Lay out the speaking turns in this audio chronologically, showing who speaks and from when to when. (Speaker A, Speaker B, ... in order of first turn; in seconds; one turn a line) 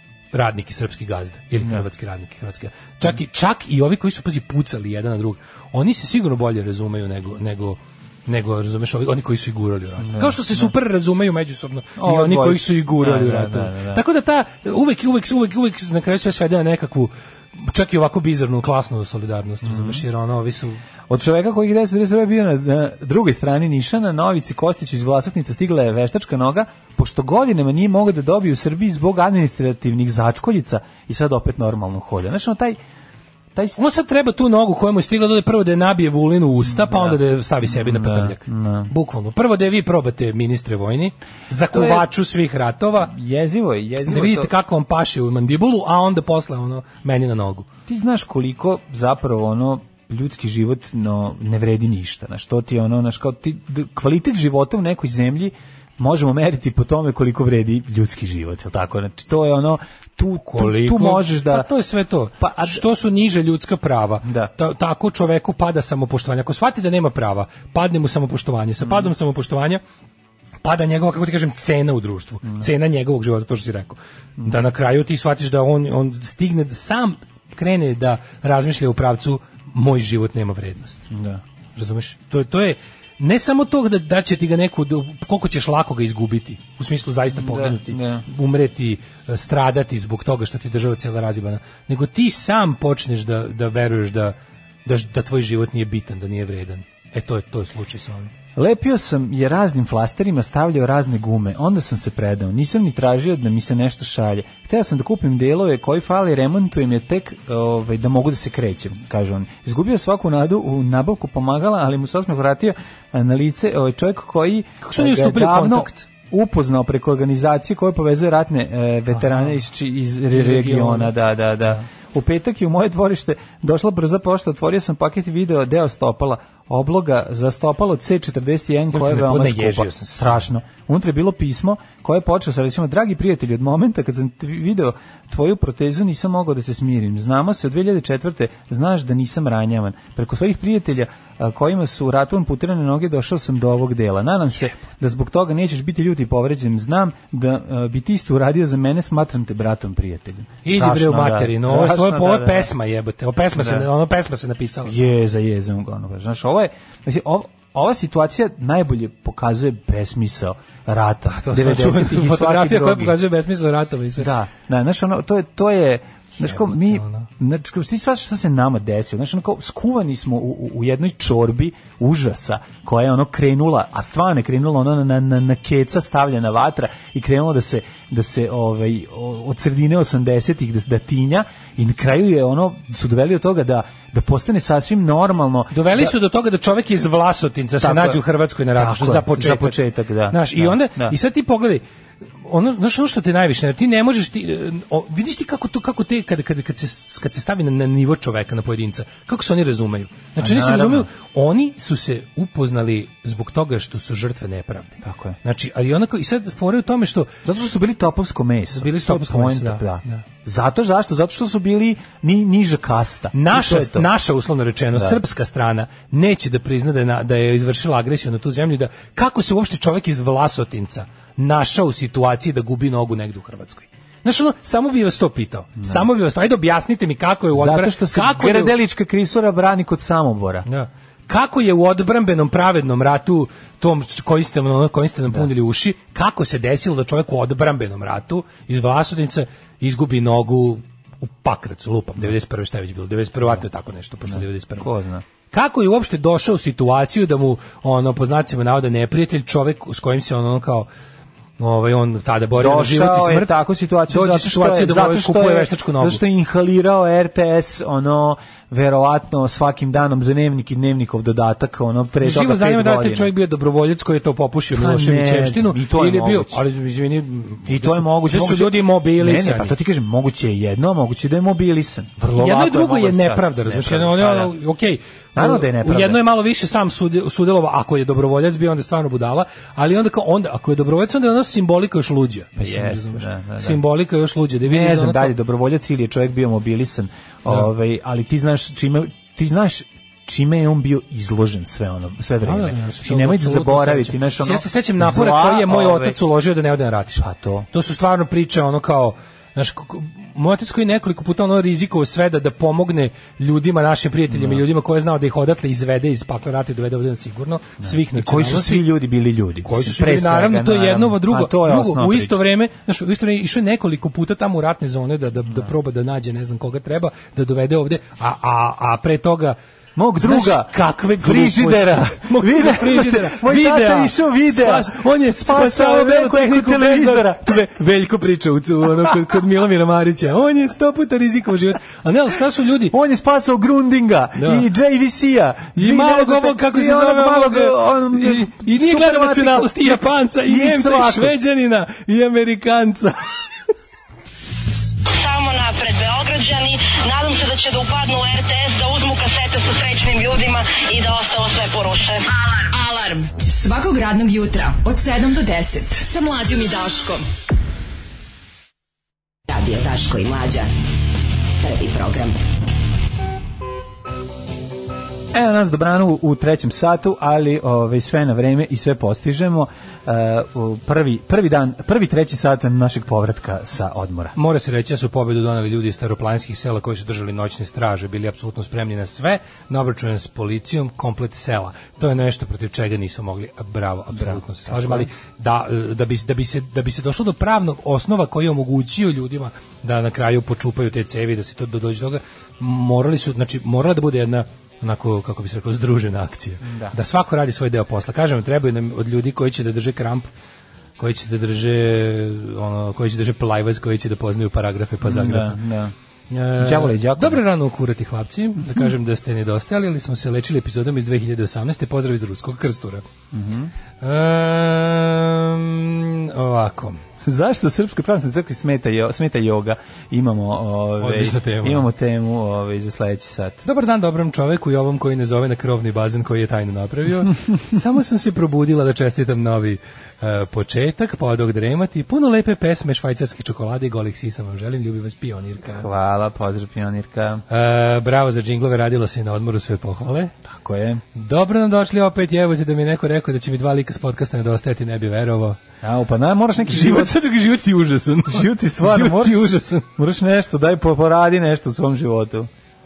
Speaker A: 0.3-20.8
Speaker B: 1.6-1.8
Speaker B: 10.0-10.7
Speaker B: 12.0-14.0
Speaker B: 19.6-20.0
Speaker B: 21.1-32.8
Speaker A: 33.8-43.1
Speaker B: 36.6-38.9
Speaker B: 41.7-42.1
Speaker B: 43.0-44.5
Speaker A: 44.0-47.7
Speaker B: 47.9-61.7
Speaker A: 60.4-69.8
Speaker B: 62.4-62.8
Speaker B: 64.2-64.5
Speaker B: 68.8-69.1
Speaker A: 70.6-81.1
Speaker B: 81.1-81.4
Speaker A: 81.8-98.3
Speaker B: 87.3-88.2
Speaker B: 98.5-152.7
Speaker A: 114.8-116.0
Speaker A: 119.1-119.5
Speaker A: 120.3-121.1
Speaker A: 128.9-130.4
Speaker A: 150.6-155.1
Speaker B: 153.5-153.9
Speaker B: 154.8-163.2
Speaker A: 161.3-164.3
Speaker B: 164.2-186.1
Speaker A: 166.4-167.3
Speaker A: 185.7-191.8
Speaker B: 187.8-188.2
Speaker B: 188.7-191.2
Speaker A: 192.4-207.4
Speaker B: 200.4-201.1
Speaker B: 205.0-205.4
Speaker B: 207.4-214.1
Speaker A: 208.7-210.2
Speaker A: 213.3-228.7
Speaker B: 214.9-215.2
Speaker B: 225.8-226.1
Speaker B: 227.5-230.7
Speaker A: 230.7-244.9
Speaker B: 244.3-245.2
Speaker A: 245.5-250.9
Speaker A: 251.6-256.2
Speaker B: 252.5-263.3
Speaker A: 262.2-269.7
Speaker B: 264.7-266.6
Speaker B: 267.6-274.5
Speaker A: 272.3-285.3
Speaker B: 275.3-276.2
Speaker B: 282.6-283.8
Speaker B: 284.6-296.2
Speaker A: 292.4-308.9
Speaker B: 297.2-297.7
Speaker B: 304.3-304.6
Speaker B: 307.8-312.4
Speaker A: 309.6-319.6
Speaker B: 319.9-327.6
Speaker A: 320.2-332.9
Speaker B: 332.9-341.3
Speaker A: 334.4-334.6
Speaker A: 335.8-343.2
Speaker C: 345.1-352.2
Speaker D: 352.4-357.2
Speaker E: 359.5-360.7
Speaker E: 361.6-362.4
Speaker B: 365.3-374.4
Speaker A: 374.4-400.3
Speaker B: 384.1-385.1
Speaker B: 396.6-396.9
Speaker A: 401.0-405.6
Speaker B: 405.0-405.9
Speaker A: 406.3-413.0
Speaker B: 406.6-407.4
Speaker B: 413.3-413.7
Speaker A: 414.0-417.0
Speaker B: 417.2-423.6
Speaker A: 421.0-421.9
Speaker A: 423.6-435.9
Speaker B: 435.7-437.4
Speaker A: 437.5-440.3
Speaker B: 440.4-441.0
Speaker A: 441.1-445.6
Speaker B: 445.8-447.1
Speaker A: 446.6-449.9
Speaker B: 448.3-452.5